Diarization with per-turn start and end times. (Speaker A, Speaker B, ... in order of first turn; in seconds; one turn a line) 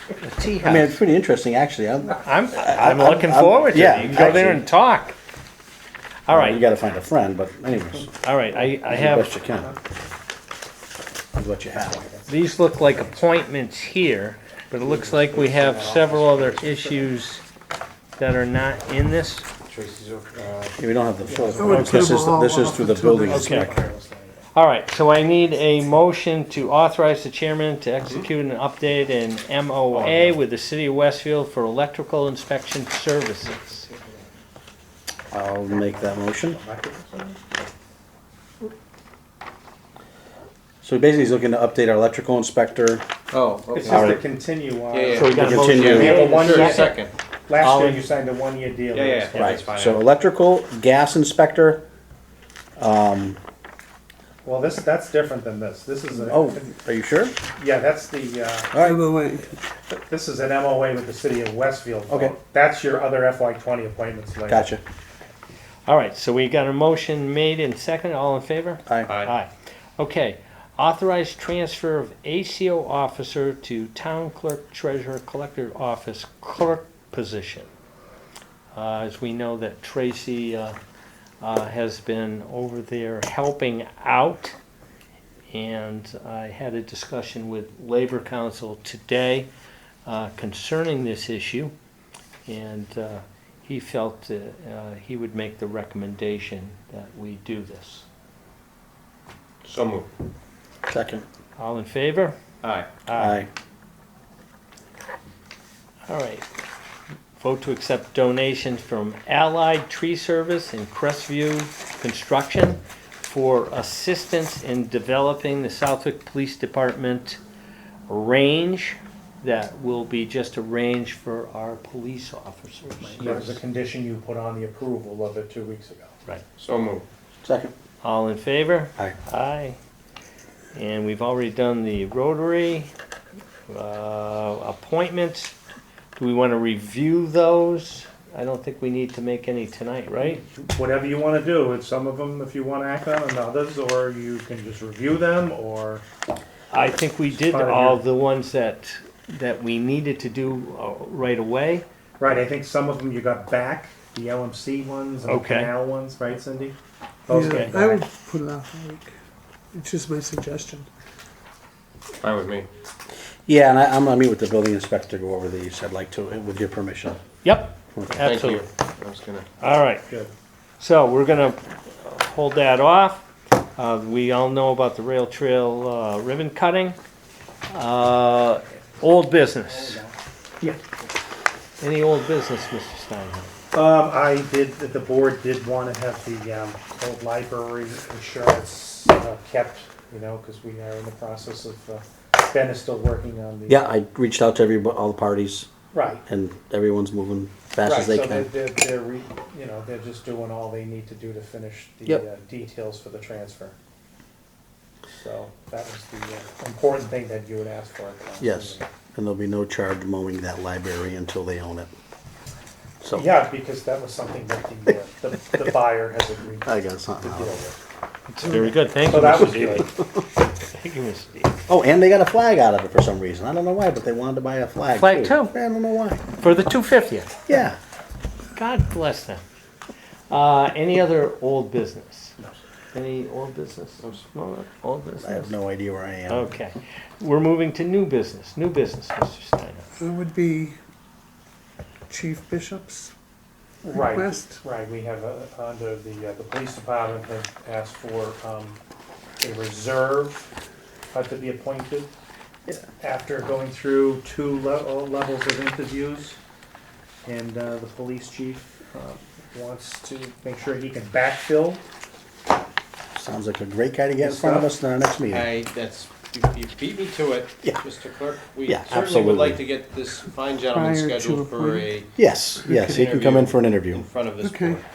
Speaker A: 0.2-1.0
Speaker B: 0.6-4.7
Speaker A: 2.2-5.2
Speaker A: 6.3-6.7
Speaker B: 6.3-8.1
Speaker A: 8.2-9.3
Speaker B: 8.9-9.7
Speaker B: 11.3-12.1
Speaker C: 11.9-12.3
Speaker A: 12.3-17.4
Speaker C: 12.9-13.2
Speaker C: 14.8-17.1
Speaker A: 18.2-19.5
Speaker D: 19.6-20.8
Speaker B: 20.8-23.8
Speaker C: 21.3-22.3
Speaker E: 21.6-23.7
Speaker C: 23.2-24.5
Speaker A: 23.3-23.7
Speaker A: 24.5-33.9
Speaker D: 29.9-30.4
Speaker B: 35.3-36.6
Speaker C: 35.7-37.5
Speaker B: 40.8-43.0
Speaker D: 43.3-44.2
Speaker C: 43.7-49.6
Speaker A: 43.9-44.2
Speaker D: 44.9-47.1
Speaker A: 45.1-47.0
Speaker B: 45.3-46.2
Speaker A: 47.6-48.0
Speaker D: 48.9-50.0
Speaker B: 49.4-51.8
Speaker B: 52.8-53.4
Speaker C: 54.4-56.7
Speaker B: 56.2-57.4
Speaker C: 57.5-58.8
Speaker B: 58.7-59.0
Speaker E: 58.8-59.5
Speaker C: 59.9-64.7
Speaker B: 62.1-62.4
Speaker B: 64.5-64.8
Speaker A: 65.9-77.7
Speaker D: 69.1-69.3
Speaker A: 78.7-80.8
Speaker A: 81.4-84.6
Speaker A: 85.5-89.5
Speaker A: 90.1-91.7
Speaker A: 92.5-98.1
Speaker D: 99.6-100.1
Speaker B: 100.9-101.2
Speaker A: 101.6-102.4
Speaker D: 102.6-102.9
Speaker A: 103.0-103.4
Speaker B: 103.1-103.5
Speaker A: 106.1-106.5
Speaker A: 107.3-117.4
Speaker A: 118.1-123.5
Speaker C: 123.1-126.2
Speaker D: 123.2-123.6
Speaker D: 126.6-127.0
Speaker B: 127.4-127.7
Speaker A: 128.0-129.8
Speaker A: 130.7-132.9
Speaker A: 133.7-135.6
Speaker A: 136.2-140.4
Speaker C: 140.4-146.0
Speaker A: 146.7-151.9
Speaker C: 147.3-148.0
Speaker C: 152.2-156.8
Speaker A: 155.2-155.7
Speaker C: 157.3-158.1
Speaker E: 157.3-159.1
Speaker A: 157.4-157.7
Speaker E: 159.7-160.9
Speaker D: 162.2-162.7
Speaker B: 163.5-167.2
Speaker A: 167.4-168.7
Speaker D: 168.2-169.5
Speaker A: 169.6-170.1
Speaker A: 170.8-177.0
Speaker A: 177.7-180.0
Speaker A: 181.8-183.5
Speaker C: 183.7-193.9
Speaker B: 193.7-195.7
Speaker C: 195.9-196.2
Speaker B: 196.3-198.5
Speaker C: 197.8-203.8
Speaker C: 205.1-208.9
Speaker B: 208.4-211.9
Speaker B: 213.0-213.3
Speaker C: 213.2-217.8
Speaker B: 216.7-217.6
Speaker A: 218.3-221.6
Speaker C: 219.0-219.9
Speaker B: 221.7-226.2
Speaker A: 225.0-225.5
Speaker A: 226.4-227.5
Speaker B: 227.5-227.8
Speaker A: 228.5-229.4
Speaker A: 230.3-232.4
Speaker A: 232.9-235.5
Speaker B: 235.2-236.5
Speaker A: 236.3-239.9
Speaker E: 240.0-240.8
Speaker E: 242.1-243.1
Speaker C: 243.8-248.8
Speaker E: 243.9-244.6
Speaker C: 249.4-250.5
Speaker C: 251.1-252.1
Speaker C: 253.0-256.4
Speaker C: 257.2-261.8
Speaker B: 263.1-265.5
Speaker C: 264.2-264.7
Speaker D: 265.3-272.1
Speaker B: 268.6-269.6
Speaker E: 270.6-271.9
Speaker B: 272.2-274.1
Speaker E: 272.6-273.0
Speaker D: 272.8-274.9
Speaker E: 274.4-274.8